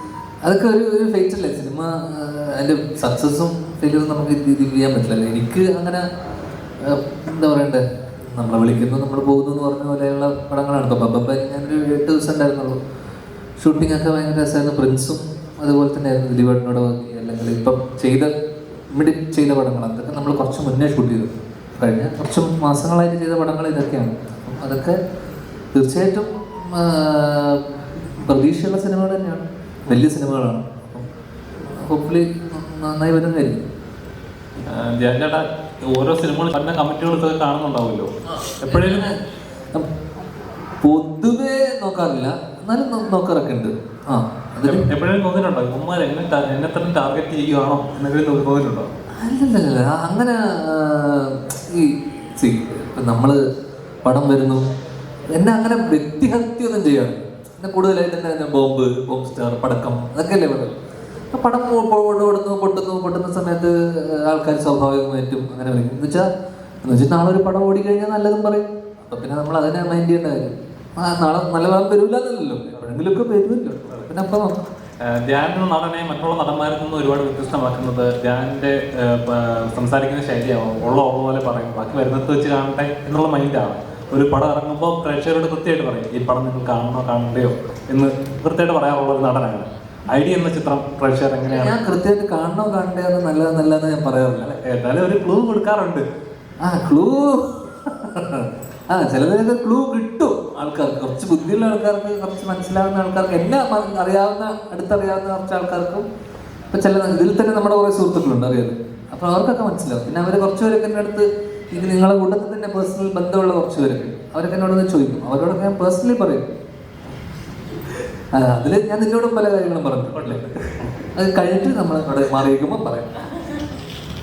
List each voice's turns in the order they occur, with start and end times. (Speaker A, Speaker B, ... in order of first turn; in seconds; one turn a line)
Speaker A: 0.4-6.0
Speaker A: 6.8-12.8
Speaker A: 13.6-18.3
Speaker A: 18.9-25.0
Speaker A: 25.7-27.6
Speaker A: 28.2-31.1
Speaker A: 31.6-33.6
Speaker B: 34.6-38.1
Speaker A: 38.3-39.2
Speaker B: 38.6-39.1
Speaker A: 40.8-44.9
Speaker B: 44.6-48.9
Speaker A: 49.2-53.4
Speaker A: 54.0-54.6
Speaker A: 55.3-60.7
Speaker A: 61.3-66.3
Speaker A: 66.8-74.6
Speaker B: 75.0-91.8
Speaker A: 91.5-94.6
Speaker B: 94.6-96.0
Speaker A: 96.6-106.0
Speaker A: 106.7-116.5
Speaker A: 118.3-120.4
Speaker B: 120.1-120.8
Speaker A: 121.1-123.1